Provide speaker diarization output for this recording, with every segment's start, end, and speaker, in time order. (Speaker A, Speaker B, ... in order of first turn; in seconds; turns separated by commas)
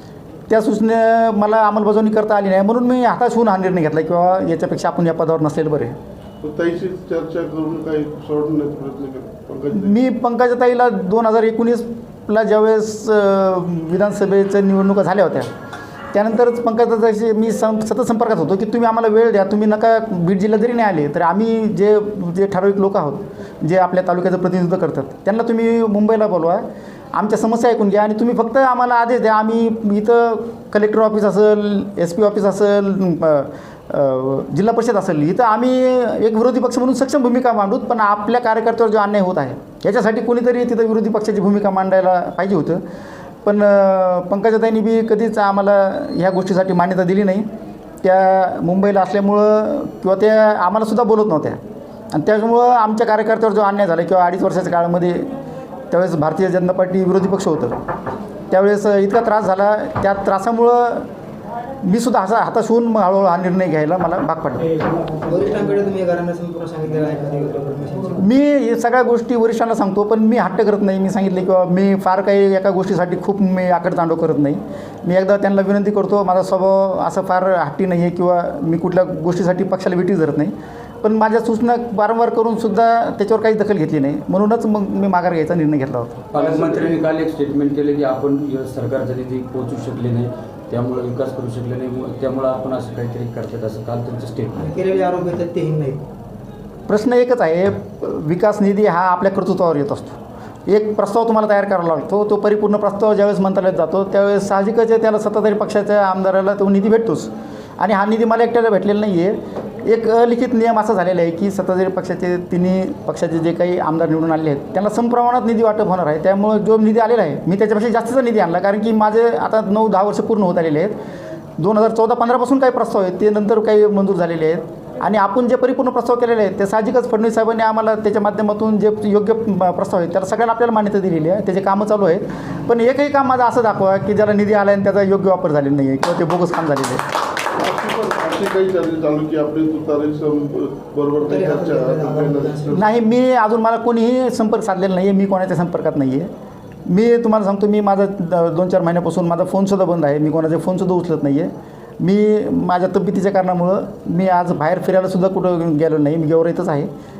Speaker A: 0.5-6.0, Speaker B: 6.4-10.0, Speaker A: 9.7-15.5, Speaker A: 16.1-42.8, Speaker A: 43.4-47.5, Speaker A: 48.0-51.6, Speaker A: 52.1-55.3, Speaker A: 55.9-57.8, Speaker A: 58.5-61.1, Speaker A: 61.8-64.8, Speaker C: 64.8-68.2, Speaker A: 68.2-86.3, Speaker D: 86.3-94.7, Speaker B: 86.3-86.9, Speaker C: 94.5-96.0, Speaker A: 96.9-121.0, Speaker A: 121.6-137.1, Speaker B: 137.5-142.9, Speaker C: 141.2-142.9, Speaker A: 142.7-146.3, Speaker A: 146.8-156.9